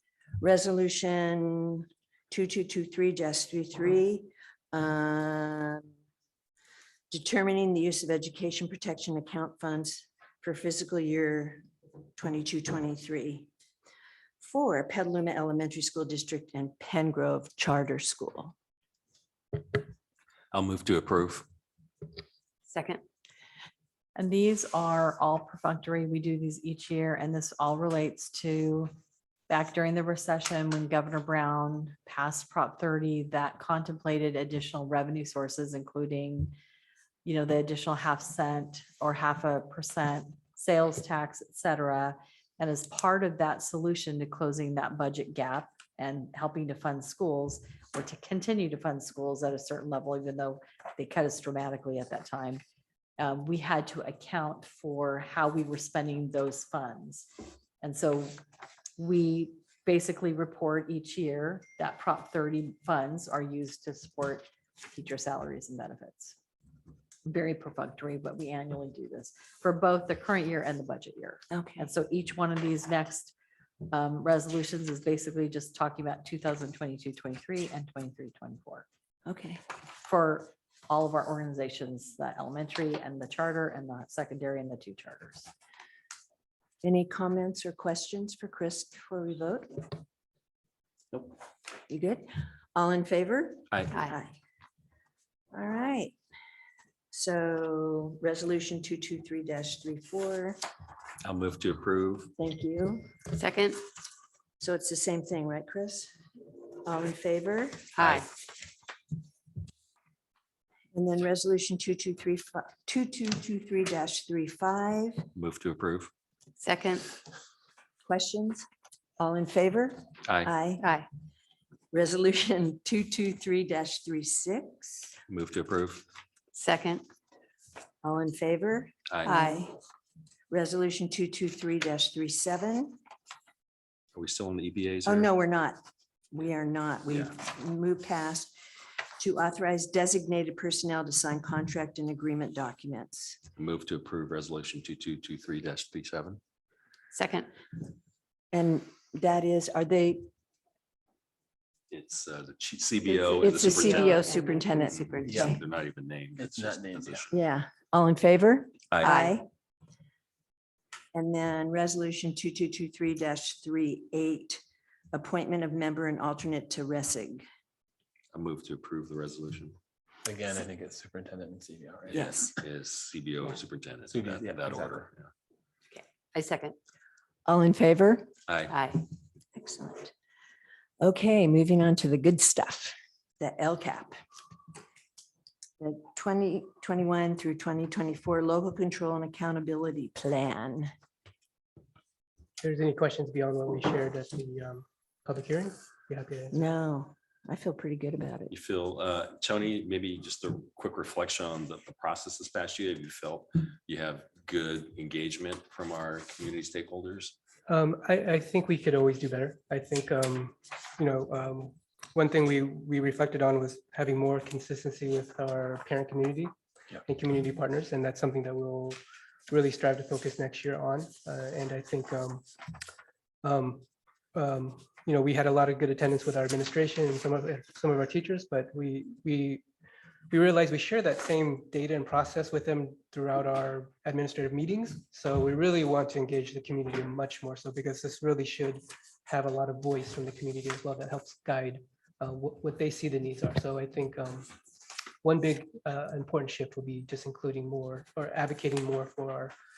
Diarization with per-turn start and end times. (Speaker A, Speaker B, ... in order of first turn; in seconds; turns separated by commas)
Speaker A: 0.4-5.9, Speaker A: 7.1-11.6, Speaker A: 12.2-13.5, Speaker A: 14.4-18.5, Speaker B: 20.5-21.5, Speaker C: 22.7-23.0, Speaker D: 24.2-28.9, Speaker D: 29.5-36.5, Speaker D: 37.2-52.6, Speaker D: 53.2-57.3, Speaker D: 57.8-58.4, Speaker D: 59.0-66.4, Speaker D: 67.2-73.3, Speaker A: 71.5-71.9, Speaker D: 73.9-78.8, Speaker A: 79.2-79.6, Speaker D: 80.0-85.5, Speaker A: 86.8-90.0, Speaker A: 91.9-94.4, Speaker A: 95.5-96.1, Speaker A: 97.1-100.6, Speaker B: 101.2-102.3, Speaker A: 102.4-103.0, Speaker C: 103.3-103.8, Speaker A: 104.6-106.1, Speaker A: 106.8-107.9, Speaker C: 108.0-108.3, Speaker B: 108.0-108.3, Speaker A: 110.9-115.3, Speaker B: 115.3-116.1, Speaker C: 116.6-117.1, Speaker A: 118.1-118.6, Speaker A: 119.2-120.8, Speaker C: 120.8-121.1, Speaker A: 121.9-125.2, Speaker B: 125.3-126.1, Speaker C: 126.5-127.0, Speaker A: 128.0-129.8, Speaker B: 129.1-129.3, Speaker C: 129.2-129.6, Speaker A: 130.5-133.0, Speaker B: 134.2-135.3, Speaker A: 135.0-135.8, Speaker A: 136.3-138.5, Speaker A: 139.2-143.4, Speaker B: 143.6-146.4, Speaker C: 147.1-147.5, Speaker A: 148.5-150.2, Speaker B: 151.9-157.3, Speaker A: 153.0-155.6, Speaker C: 154.0-154.6, Speaker E: 155.2-155.6, Speaker E: 156.3-157.3, Speaker A: 157.3-159.5, Speaker B: 158.9-159.3, Speaker A: 161.1-164.6, Speaker A: 165.1-167.4, Speaker B: 168.3-169.8, Speaker E: 170.2-172.6, Speaker B: 172.1-175.3, Speaker A: 172.1-172.5, Speaker E: 174.1-175.1, Speaker C: 175.9-176.8, Speaker A: 177.5-178.3, Speaker B: 178.5-178.7, Speaker C: 178.7-179.0, Speaker A: 179.5-180.1, Speaker A: 181.0-184.2, Speaker A: 185.8-190.9, Speaker F: 192.6-196.7, Speaker A: 196.5-198.5, Speaker B: 198.5-207.3, Speaker F: 207.7-216.5, Speaker F: 217.1-222.5, Speaker F: 223.4-229.6, Speaker F: 230.3-244.5, Speaker F: 245.2-249.5